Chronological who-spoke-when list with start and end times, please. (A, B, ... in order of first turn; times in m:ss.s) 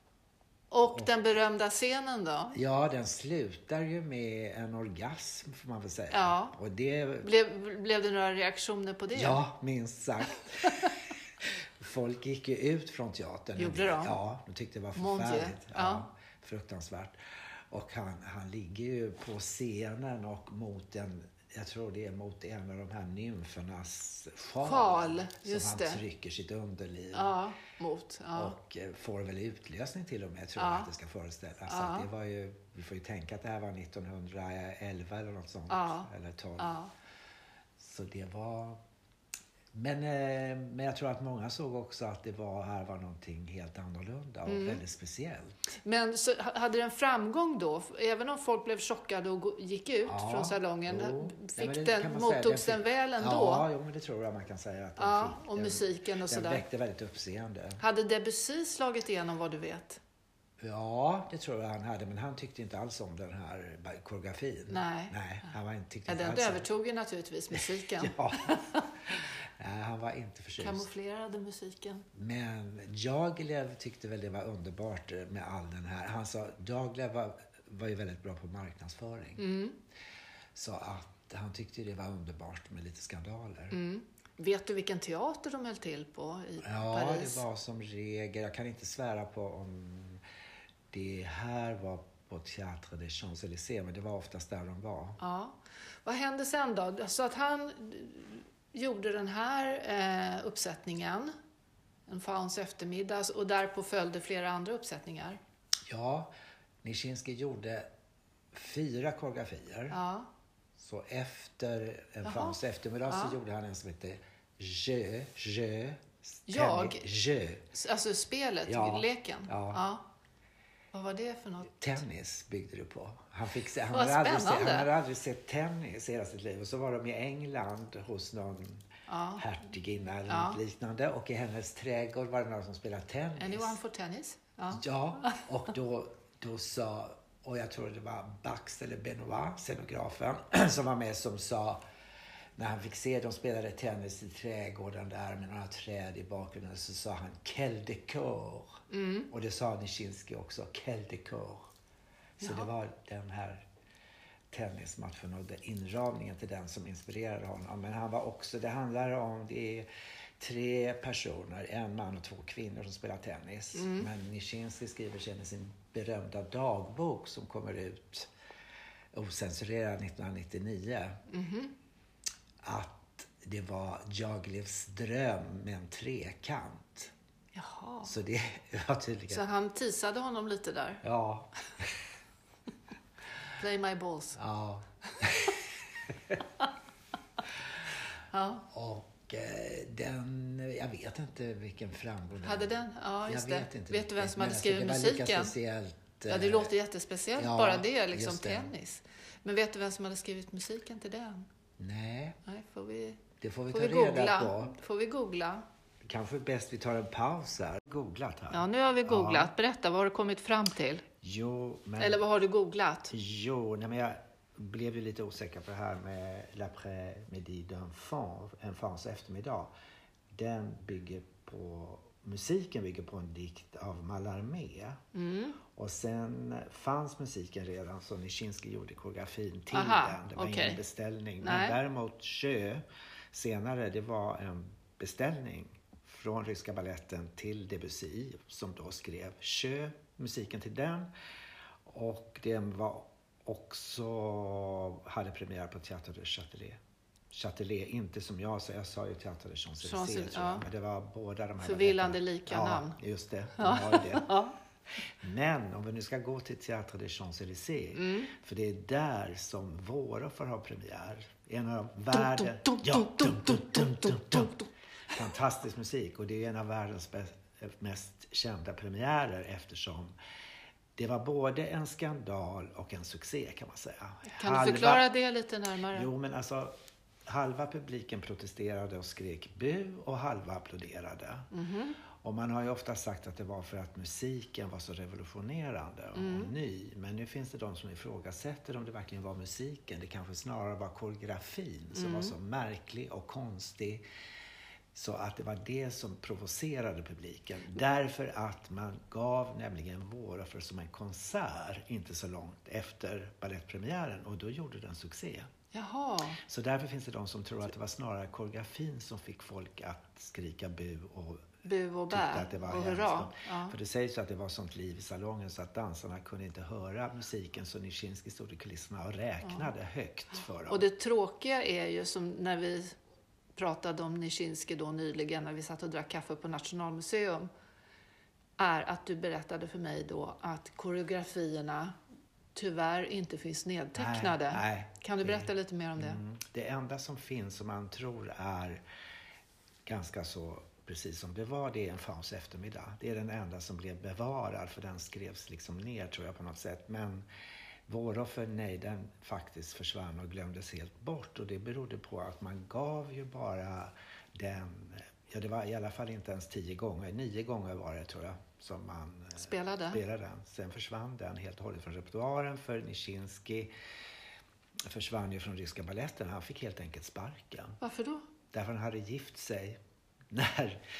0:00.7-0:02.6 A
0:00.8-0:01.1 B
0:02.5-0:07.3 B
0:06.1-0:06.6 A
0:07.2-0:09.4 A
0:09.1-0:27.4 B
0:13.6-0:14.2 A
0:15.0-0:16.0 A
0:24.6-0:26.0 A
0:27.1-0:28.6 A
0:28.3-0:36.8 B
0:30.6-0:30.9 A
0:31.7-0:32.1 A
0:35.7-0:36.9 A
0:37.8-0:38.8 B
0:39.7-0:45.6 B
0:44.5-0:44.8 A
0:45.8-0:53.7 A
0:50.0-0:57.8 B
0:55.0-0:56.6 A
0:57.8-1:00.0 A
1:00.6-1:06.7 B
1:04.7-1:05.5 A
1:06.1-1:08.9 A
1:07.5-1:10.9 B
1:10.6-1:12.1 A
1:12.1-1:19.5 B
1:19.4-1:19.8 A
1:20.6-1:23.8 B
1:23.7-1:27.4 A
1:26.6-1:30.2 B
1:30.9-1:35.2 B
1:35.2-1:41.4 A
1:42.1-1:45.4 A
1:45.9-1:46.3 B
1:46.8-1:47.9 B
1:48.5-1:50.0 B
1:49.9-1:50.3 A
1:50.8-1:57.6 B
1:52.2-1:52.6 A
1:53.1-1:53.4 A
1:56.5-1:57.0 A
1:57.7-2:00.0 A
1:58.7-1:59.8 B
2:00.9-2:01.8 A
2:01.8-2:13.8 B
2:03.9-2:04.9 A
2:09.1-2:09.5 A
2:10.3-2:10.6 A
2:13.4-2:15.4 A
2:14.7-2:21.8 B
2:22.6-2:31.7 B
2:28.9-2:29.3 A
2:32.4-2:33.7 B
2:32.4-2:32.7 A
2:34.5-2:39.9 B
2:40.4-2:48.3 B
2:43.8-2:44.1 A
2:49.1-2:51.2 B
2:51.3-2:51.7 A
2:52.6-2:57.1 B
2:57.6-2:58.1 A
2:58.0-2:59.5 B
2:59.3-3:01.0 A
3:01.0-3:02.1 B
3:03.5-3:04.4 A
3:04.4-3:06.4 B
3:05.2-3:05.5 A
3:08.3-3:08.7 A
3:08.7-3:16.7 B
3:12.4-3:15.6 A
3:16.3-3:21.5 A
3:17.4-3:18.7 B
3:21.8-3:22.4 B
3:22.5-3:25.6 A
3:23.4-3:24.8 B
3:26.0-3:29.5 B
3:28.5-3:31.0 A
3:31.2-3:32.2 B
3:32.0-3:33.1 A
3:33.1-3:39.7 B
3:40.3-3:45.0 B
3:45.1-3:45.6 A
3:45.7-4:01.1 B
3:49.7-3:50.8 A
3:51.4-3:51.8 A
4:01.8-4:06.8 B
4:07.3-4:14.4 B
4:09.8-4:10.6 A
4:11.6-4:13.0 A
4:13.6-4:14.6 A
4:15.0-4:24.6 B
4:18.0-4:18.3 A
4:22.1-4:24.7 A
4:25.1-4:30.1 B
4:31.0-4:35.1 B
4:34.3-4:36.1 A
4:35.9-4:36.7 B
4:37.3-4:41.5 B
4:41.5-4:42.0 A
4:42.2-4:54.0 B
4:46.2-4:46.5 A
4:51.9-4:52.4 A
4:54.9-5:05.5 B
5:05.7-5:06.4 A
5:06.4-5:11.5 B
5:11.6-5:13.8 A
5:12.1-5:20.9 B
5:19.4-5:19.7 A
5:20.7-5:23.0 A
5:23.6-5:27.5 A
5:28.6-5:32.0 A
5:32.6-5:36.2 A
5:34.0-5:38.8 B
5:39.8-5:47.3 B
5:47.9-6:03.7 B
5:59.4-6:00.0 A
6:04.8-6:07.8 B
6:07.8-6:08.3 A
6:08.5-6:10.8 B